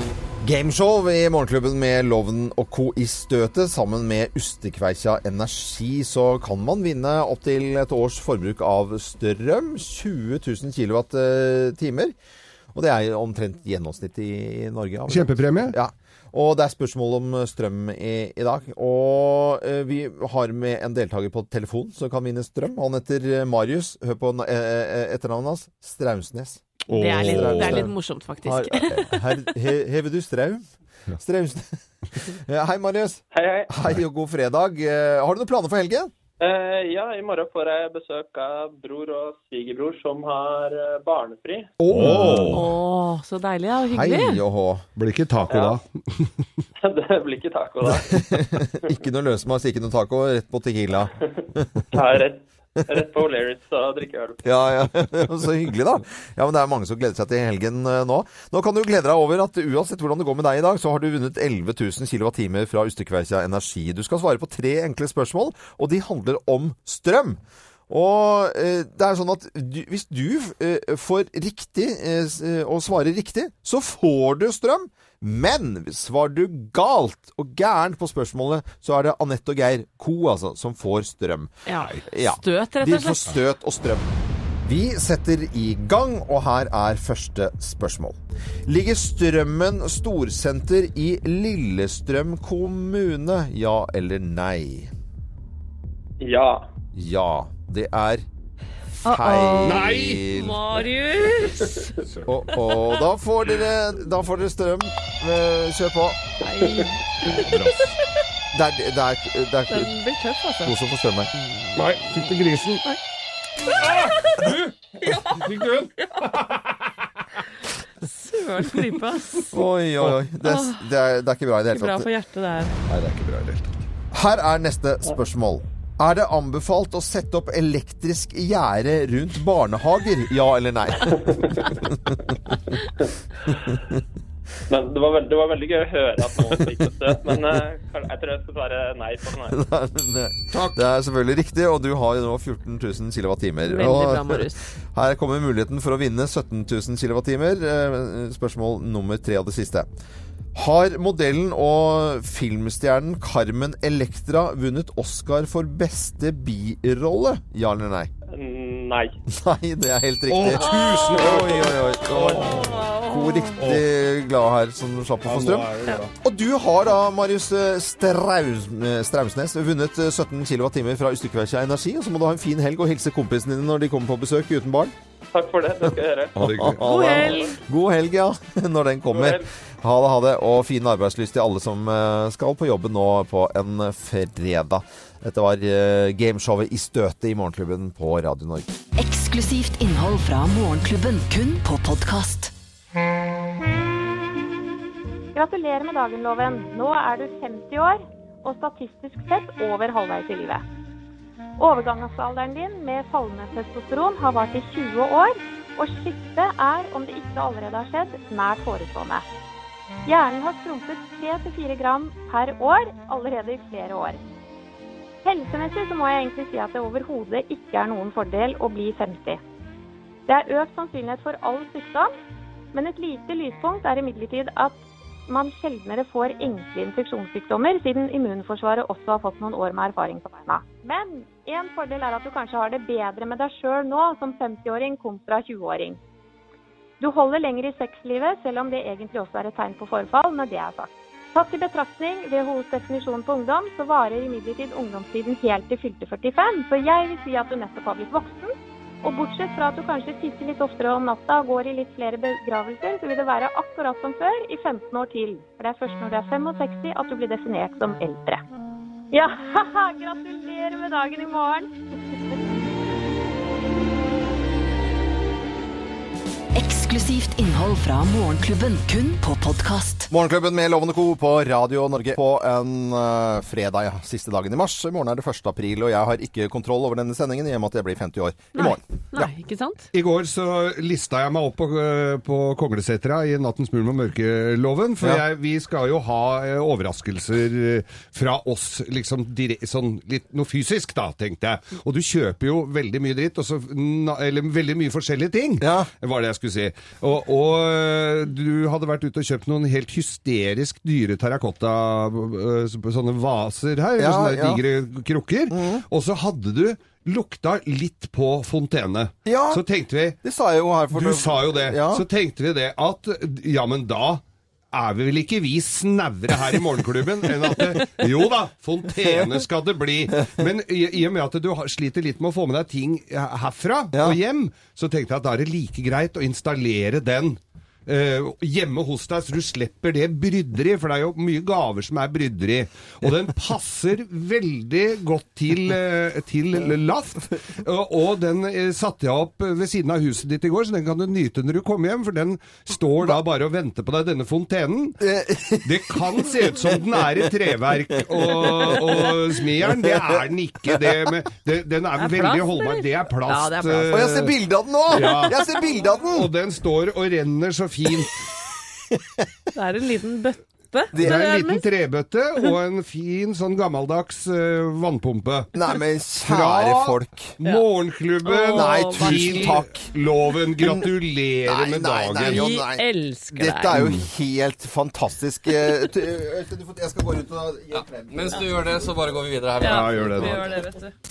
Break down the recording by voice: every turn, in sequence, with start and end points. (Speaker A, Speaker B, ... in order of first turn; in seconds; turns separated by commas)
Speaker A: 0.4-12.1, Speaker A: 12.7-30.6, Speaker B: 15.1-15.8, Speaker B: 26.9-27.9, Speaker C: 26.9-29.2, Speaker A: 31.2-36.1, Speaker D: 33.3-33.7, Speaker D: 36.4-41.7, Speaker B: 41.8-42.7, Speaker A: 41.8-42.7, Speaker C: 42.0-44.4, Speaker A: 43.9-44.8, Speaker B: 45.0-46.4, Speaker D: 45.5-45.8, Speaker D: 46.8-48.3, Speaker A: 47.8-51.8, Speaker D: 51.3-54.4, Speaker A: 54.4-81.5, Speaker C: 81.7-83.3, Speaker A: 82.1-84.0, Speaker A: 84.6-94.9, Speaker D: 96.2-96.7, Speaker A: 96.9-98.2, Speaker A: 99.0-100.6, Speaker C: 99.0-101.9, Speaker B: 99.6-100.2, Speaker A: 102.2-106.2, Speaker C: 102.5-103.0, Speaker C: 106.4-107.9, Speaker B: 107.2-107.9, Speaker A: 108.5-109.9, Speaker C: 109.7-110.8, Speaker A: 110.6-111.3, Speaker B: 111.7-112.8, Speaker B: 113.7-117.1, Speaker C: 115.0-115.4, Speaker C: 118.0-119.6, Speaker A: 119.5-122.1, Speaker C: 120.4-120.8, Speaker C: 121.7-122.8, Speaker B: 122.9-123.7, Speaker A: 124.1-131.9, Speaker D: 131.1-131.7, Speaker D: 133.5-133.8, Speaker D: 134.7-139.6, Speaker A: 139.5-149.9, Speaker B: 140.5-140.8, Speaker C: 143.6-144.7, Speaker A: 150.5-158.1, Speaker D: 158.3-159.1, Speaker A: 159.3-174.9, Speaker B: 160.3-162.8, Speaker C: 160.7-161.3, Speaker C: 162.3-163.6, Speaker B: 163.6-163.8, Speaker B: 165.2-166.1, Speaker D: 175.3-176.4, Speaker A: 176.3-188.8, Speaker B: 176.4-176.8, Speaker C: 176.8-177.5, Speaker D: 177.2-177.6, Speaker D: 179.1-179.5, Speaker E: 188.9-192.5, Speaker F: 195.3-200.6, Speaker F: 201.6-209.2, Speaker F: 210.1-214.2, Speaker F: 215.2-219.4, Speaker F: 220.3-222.1, Speaker F: 222.7-236.0, Speaker F: 237.0-248.5, Speaker F: 249.0-258.4, Speaker F: 259.1-261.7, Speaker E: 266.5-270.1, Speaker A: 270.1-278.8, Speaker C: 278.5-279.9, Speaker B: 279.9-310.2, Speaker A: 295.6-295.9, Speaker A: 304.0-304.6, Speaker A: 305.5-305.8, Speaker A: 309.2-309.6, Speaker A: 310.2-312.0, Speaker B: 310.9-345.0, Speaker A: 319.0-319.4, Speaker A: 323.9-324.2, Speaker A: 345.0-347.3, Speaker B: 345.6-354.4, Speaker A: 348.0-351.1, Speaker C: 352.0-354.0, Speaker A: 353.9-356.3, Speaker B: 354.9-355.4, Speaker C: 355.0-355.5, Speaker B: 356.1-358.2, Speaker C: 359.5-361.6, Speaker A: 360.9-361.2, Speaker B: 361.0-365.5, Speaker A: 365.5-367.3, Speaker B: 366.2-372.5, Speaker C: 368.2-369.6, Speaker A: 368.5-369.9, Speaker A: 370.6-370.9, Speaker A: 371.4-378.4, Speaker C: 372.2-373.8, Speaker B: 373.7-374.1, Speaker G: 377.7-380.5, Speaker C: 379.6-380.9, Speaker B: 379.6-380.5